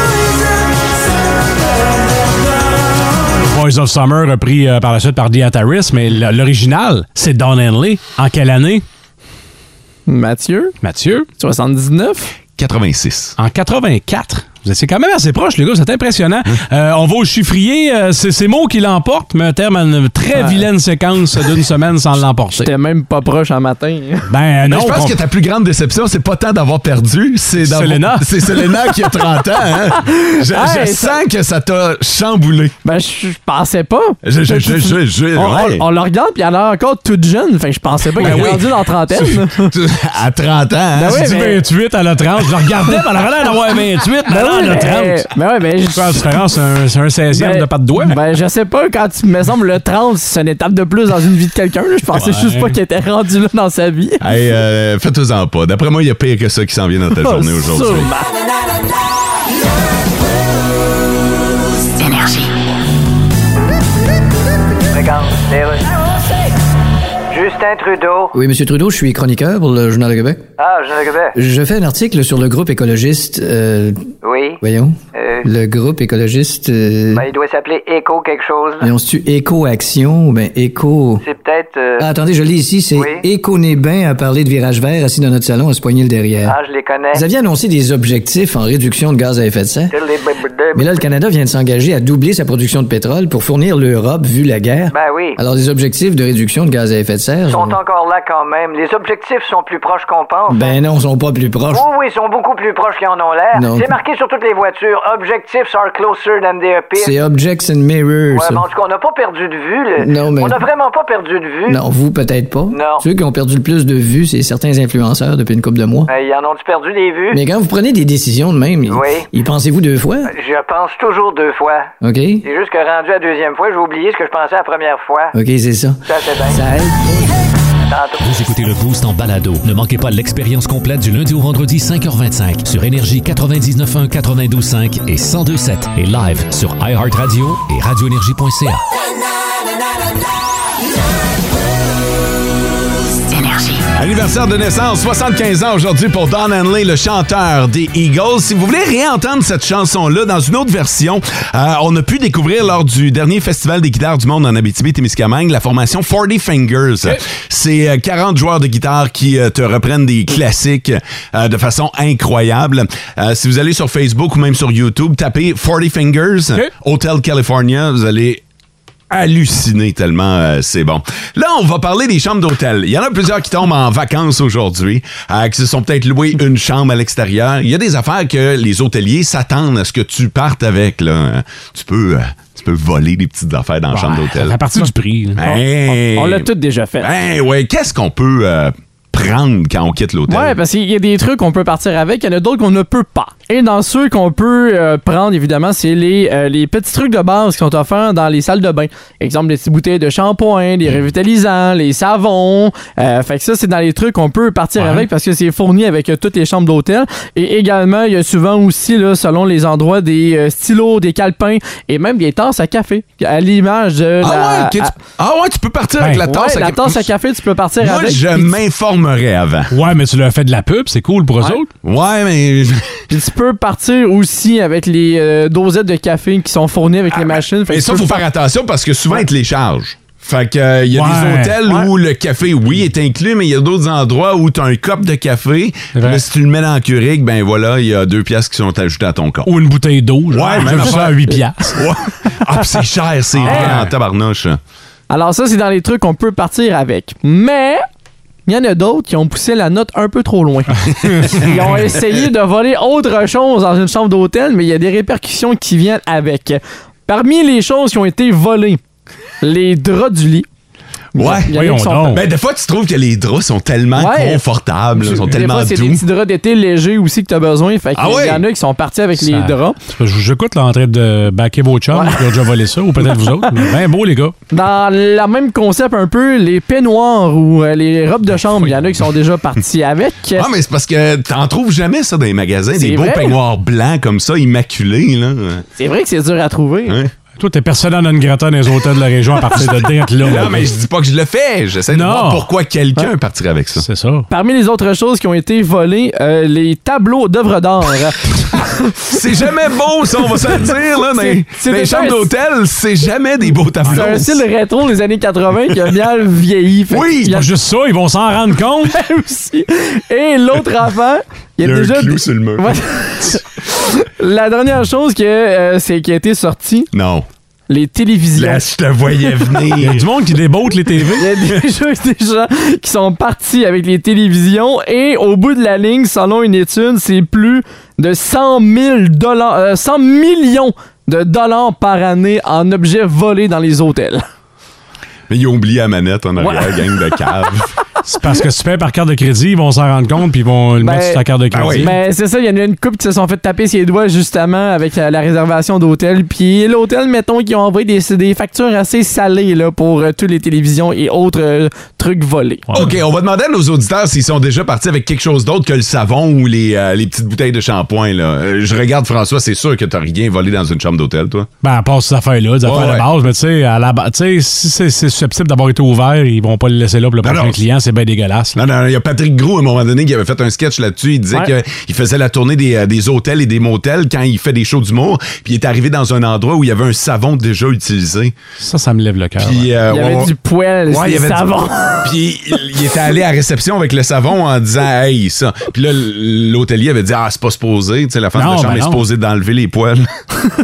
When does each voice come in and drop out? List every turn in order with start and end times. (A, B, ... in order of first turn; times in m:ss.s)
0:03.4-0:08.8 A
0:10.1-0:10.7 B
0:10.8-0:11.3 A
0:11.4-0:12.3 B
0:12.6-0:13.4 C
0:13.4-0:22.7 A
0:22.6-0:24.3 B
0:24.3-0:25.2 A
0:24.7-0:32.8 C
0:27.6-0:28.5 A
0:30.2-0:31.2 B
0:32.8-0:39.7 B
0:34.2-0:35.8 C
0:38.1-0:41.4 C
0:38.2-0:38.6 A
0:41.0-0:41.6 B
0:41.2-0:45.3 A
0:44.3-0:46.2 B
0:45.9-0:48.2 A
0:47.3-0:54.2 B
0:52.1-0:52.8 A
0:54.2-0:58.1 C
0:57.2-0:58.2 B
1:04.9-1:06.0 D
1:07.3-1:08.3 D
1:08.3-1:10.4 E
1:10.6-1:11.4 D
1:11.3-1:14.1 E
1:14.2-1:14.6 D
1:14.6-1:17.3 E
1:15.1-1:15.4 D
1:17.1-1:18.9 D
1:18.8-1:21.2 E
1:21.2-1:22.1 D
1:22.0-1:26.6 E
1:22.9-1:23.2 D
1:26.4-1:27.2 D
1:27.1-1:30.0 E
1:29.9-1:31.0 D
1:30.7-1:37.8 E
1:34.9-1:35.4 D
1:37.5-1:40.7 D
1:40.5-1:41.8 E
1:41.7-1:47.1 D
1:43.5-1:43.9 E
1:47.0-1:48.6 E
1:48.3-1:51.8 D
1:50.0-1:50.7 E
1:51.7-1:56.1 E
1:52.7-1:53.0 D
1:56.1-1:57.4 D
1:57.3-2:00.3 E
1:58.9-1:59.3 D
2:00.2-2:01.9 D
2:02.0-2:02.5 E
2:02.4-2:05.4 D
2:05.3-2:07.4 E
2:06.1-2:06.6 D
2:07.9-2:08.2 D
2:08.2-2:18.8 F
2:23.9-2:48.4 C
2:49.1-3:04.6 C
3:03.9-3:05.4 A
3:05.4-3:06.5 C
3:05.4-3:07.1 B
3:07.0-3:10.6 C
3:10.3-3:34.9 B
3:24.8-3:25.1 A
3:34.2-3:37.1 C
3:36.3-3:38.5 B
3:37.8-3:39.7 C
3:39.7-3:41.7 A
3:41.8-3:43.0 C
3:43.1-3:48.2 B
3:47.1-3:59.5 C
3:50.9-3:51.6 A
3:55.9-3:56.2 A
3:59.4-4:01.8 A
4:00.3-4:04.6 C
4:03.4-4:03.9 A
4:03.5-4:03.8 B
4:05.1-4:07.8 B
4:08.4-4:18.8 B
4:11.2-4:11.5 A
4:19.4-4:20.5 B
4:21.1-4:22.2 B
4:21.2-4:21.5 C
4:21.5-4:22.2 A
4:22.1-4:26.0 C
4:24.0-4:24.4 B
4:25.0-4:29.8 B
4:28.0-4:28.4 C
4:29.2-4:34.3 A
4:31.9-4:32.2 B
4:33.2-4:33.5 B
4:34.5-4:40.5 B
4:40.3-4:45.6 C
4:42.7-4:43.3 B
4:45.8-4:47.0 B
4:46.8-4:47.1 C
4:47.4-4:50.7 A
4:50.2-4:53.8 C
4:51.9-4:52.5 A
4:53.8-4:54.3 A
4:54.3-4:59.1 B
4:59.1-5:04.4 C
5:01.1-5:02.3 B
5:03.9-5:04.1 A
5:03.9-5:07.4 B
5:06.9-5:07.4 C
5:07.3-5:08.9 A
5:08.9-5:16.9 B
5:11.6-5:12.8 C
5:16.9-5:17.3 C
5:17.7-5:18.6 B
5:18.3-5:20.0 C
5:19.8-5:21.2 A
5:21.2-5:34.2 B
5:35.3-5:37.7 C
5:36.4-5:36.8 B
5:38.0-5:41.9 A
5:40.8-5:41.2 B
5:41.5-5:41.9 C
5:41.8-5:52.6 B
5:52.7-6:01.5 C
6:01.6-6:08.6 A
6:02.6-6:03.1 C
6:07.2-6:07.6 C
6:08.5-6:18.3 C
6:18.6-6:19.7 A
6:19.4-6:20.3 C
6:19.9-6:22.1 B
6:20.9-6:30.2 C
6:28.3-6:29.0 A